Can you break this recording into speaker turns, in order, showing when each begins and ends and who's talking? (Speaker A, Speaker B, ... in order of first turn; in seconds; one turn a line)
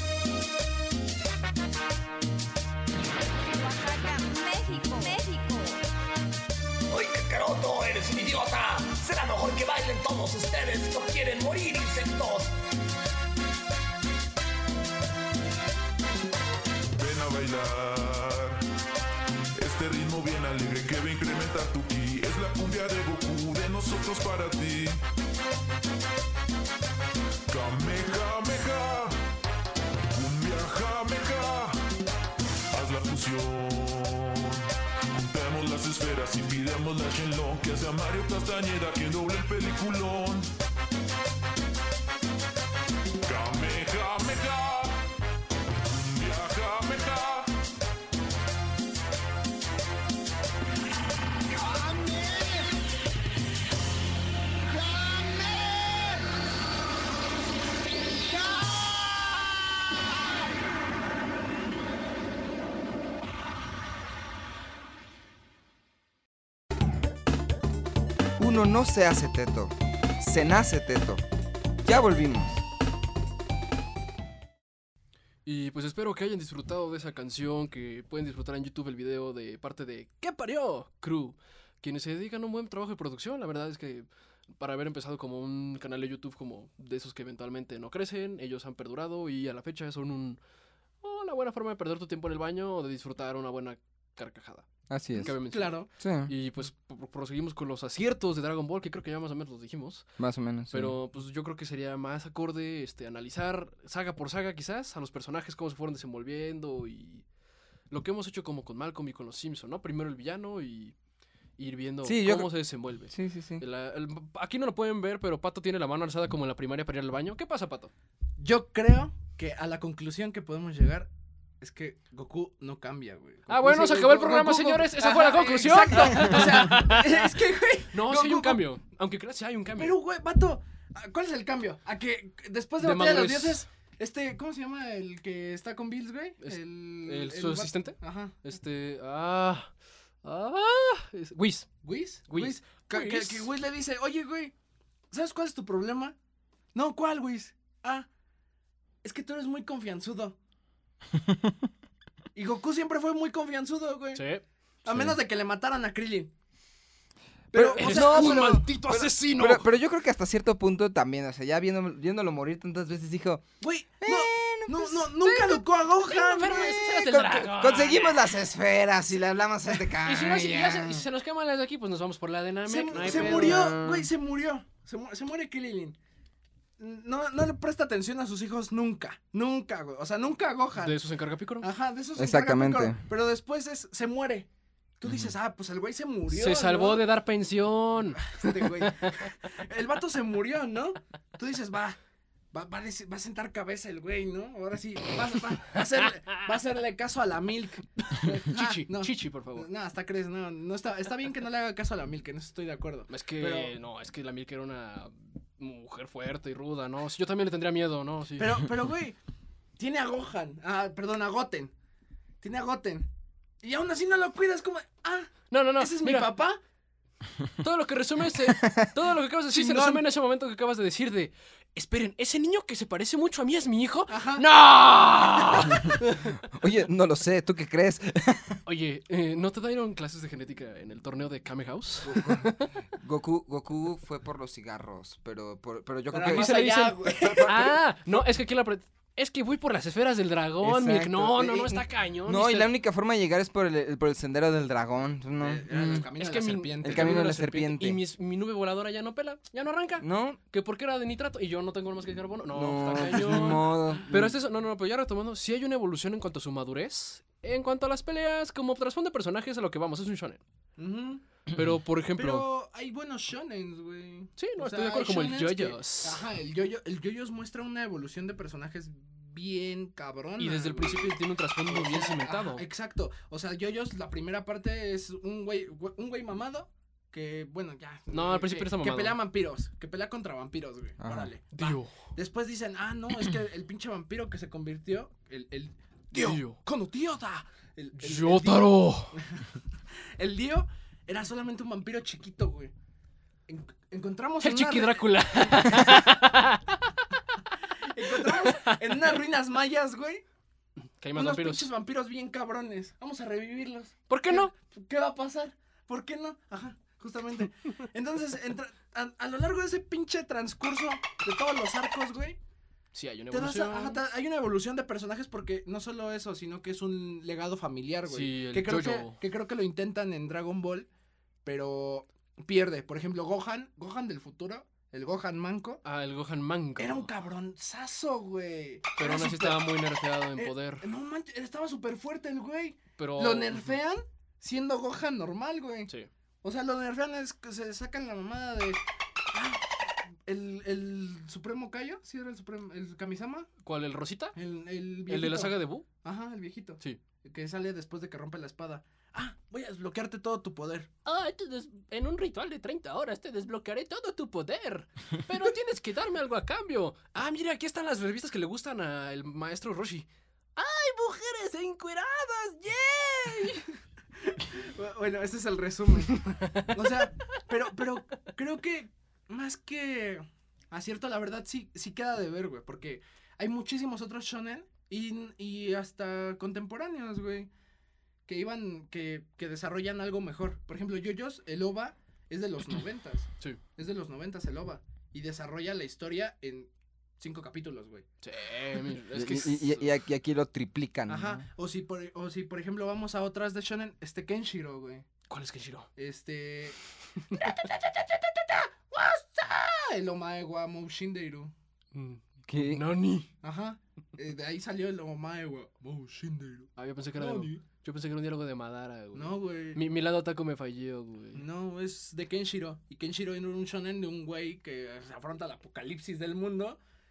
Speaker A: 3.5-5.8
Speaker B: 6.9-12.5
Speaker C: 16.9-18.6
Speaker C: 19.6-25.0
Speaker C: 27.5-29.2
Speaker C: 30.1-31.8
Speaker C: 32.7-40.5
Speaker C: 43.2-45.0
Speaker C: 45.9-47.5
Speaker D: 68.4-71.2
Speaker D: 71.8-72.6
Speaker E: 75.5-84.1
Speaker E: 84.6-90.4
Speaker E: 91.0-100.1
Speaker D: 94.9-95.3
Speaker F: 95.2-95.9
Speaker D: 96.0-96.3
Speaker D: 100.2-101.0
Speaker E: 100.7-107.3
Speaker E: 107.9-111.0
Speaker E: 111.6-117.9
Speaker D: 112.0-113.6
Speaker F: 118.4-128.6
Speaker E: 123.5-127.4
Speaker E: 127.9-130.0
Speaker F: 129.8-138.4
Speaker E: 132.8-133.7
Speaker E: 136.4-139.7
Speaker E: 140.2-141.8
Speaker F: 141.8-144.5
Speaker E: 142.3-143.5
Speaker F: 145.1-146.2
Speaker F: 146.7-148.1
Speaker F: 149.0-150.4
Speaker D: 151.1-151.7
Speaker F: 152.3-154.2
Speaker E: 154.2-154.4
Speaker F: 154.8-156.3
Speaker D: 154.9-155.2
Speaker D: 157.5-165.2
Speaker F: 157.5-158.6
Speaker E: 157.6-159.7
Speaker F: 163.6-166.8
Speaker E: 165.2-168.2
Speaker D: 166.5-171.1
Speaker E: 170.0-174.1
Speaker F: 172.7-176.0
Speaker D: 172.9-173.7
Speaker F: 176.8-181.0
Speaker E: 180.8-181.7
Speaker F: 181.6-184.5
Speaker D: 182.2-183.1
Speaker F: 185.0-187.1
Speaker E: 186.3-189.3
Speaker F: 188.1-192.0
Speaker F: 192.5-203.7
Speaker E: 198.2-199.7
Speaker E: 203.1-208.7
Speaker F: 208.4-209.2
Speaker F: 209.8-211.7
Speaker F: 212.4-213.1
Speaker F: 213.6-216.6
Speaker E: 215.5-216.3
Speaker E: 217.6-226.4
Speaker D: 218.5-218.9
Speaker F: 219.5-220.1
Speaker F: 224.1-224.4
Speaker D: 226.4-228.6
Speaker E: 228.7-232.7
Speaker D: 232.0-237.8
Speaker F: 236.1-237.7
Speaker E: 236.2-242.7
Speaker D: 240.6-246.1
Speaker F: 245.4-247.3
Speaker E: 246.2-260.4
Speaker D: 246.8-248.0
Speaker D: 250.0-250.4
Speaker D: 252.5-254.4
Speaker F: 260.8-261.2
Speaker E: 261.5-262.5
Speaker F: 262.1-289.5
Speaker E: 264.4-266.2
Speaker E: 270.4-272.6
Speaker E: 278.1-279.2
Speaker D: 281.0-281.3
Speaker E: 281.5-282.0
Speaker E: 286.1-286.6
Speaker E: 288.0-289.2
Speaker F: 290.2-292.7
Speaker F: 293.5-296.0
Speaker E: 294.4-297.0
Speaker F: 297.8-300.2
Speaker E: 298.2-298.8
Speaker E: 301.0-301.7
Speaker F: 301.1-312.4
Speaker E: 304.1-304.5
Speaker E: 312.9-314.0
Speaker F: 313.3-320.9
Speaker E: 318.1-319.2
Speaker F: 321.4-325.8
Speaker E: 325.8-327.1
Speaker F: 326.8-329.7
Speaker E: 329.0-330.9
Speaker F: 330.4-335.9
Speaker E: 333.0-333.8
Speaker F: 336.4-343.5
Speaker E: 343.6-344.4
Speaker F: 344.4-350.9
Speaker E: 345.1-345.9
Speaker E: 351.1-363.7
Speaker F: 364.2-377.5
Speaker E: 366.4-366.9
Speaker F: 378.3-388.1
Speaker E: 388.2-389.9
Speaker D: 389.1-391.5
Speaker F: 391.1-395.1
Speaker E: 395.3-395.9
Speaker F: 396.0-401.5
Speaker E: 401.9-403.3
Speaker D: 402.5-402.9
Speaker F: 403.4-407.6
Speaker E: 406.8-411.4
Speaker F: 409.1-409.8
Speaker F: 411.3-416.8